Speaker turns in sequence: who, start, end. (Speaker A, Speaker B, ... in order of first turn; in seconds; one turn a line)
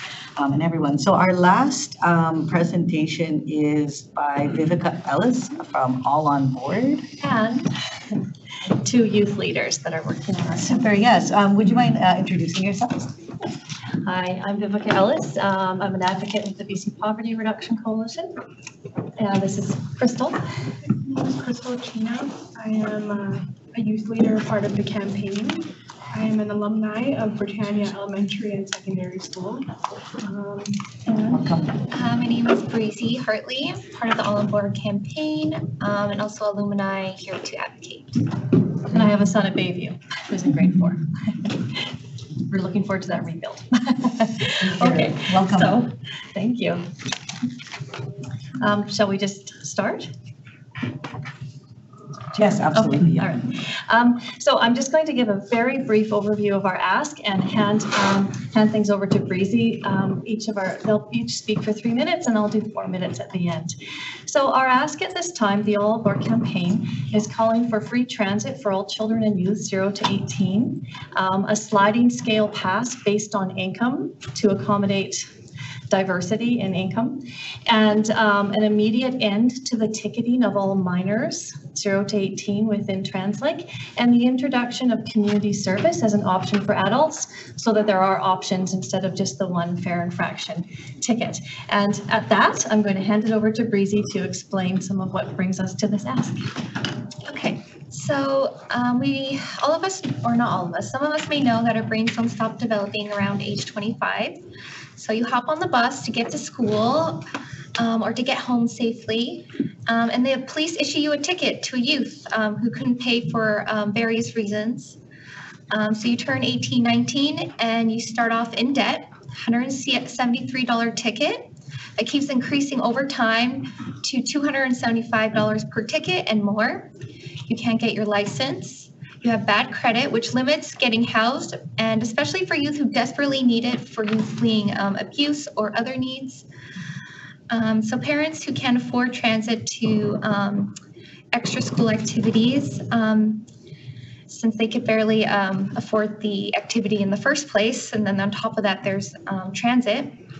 Speaker A: 0.4-7.0
Speaker B: 7.2-7.7
Speaker B: 8.6-10.9
Speaker A: 10.6-13.2
Speaker B: 14.0-18.4
Speaker B: 19.2-20.4
Speaker C: 21.0-29.7
Speaker C: 30.2-30.9
Speaker A: 31.3-31.7
Speaker D: 31.9-38.2
Speaker B: 38.9-41.0
Speaker B: 42.5-46.9
Speaker A: 44.6-45.8
Speaker B: 48.6-50.1
Speaker A: 52.3-53.4
Speaker B: 52.7-63.7
Speaker B: 64.3-75.3
Speaker B: 75.9-96.5
Speaker D: 97.2-104.4
Speaker D: 104.9-107.2
Speaker D: 107.8-115.0
Speaker D: 115.7-126.9
Speaker D: 127.5-136.4
Speaker D: 137.5-140.8
Speaker D: 141.3-143.5
Speaker D: 144.3-150.2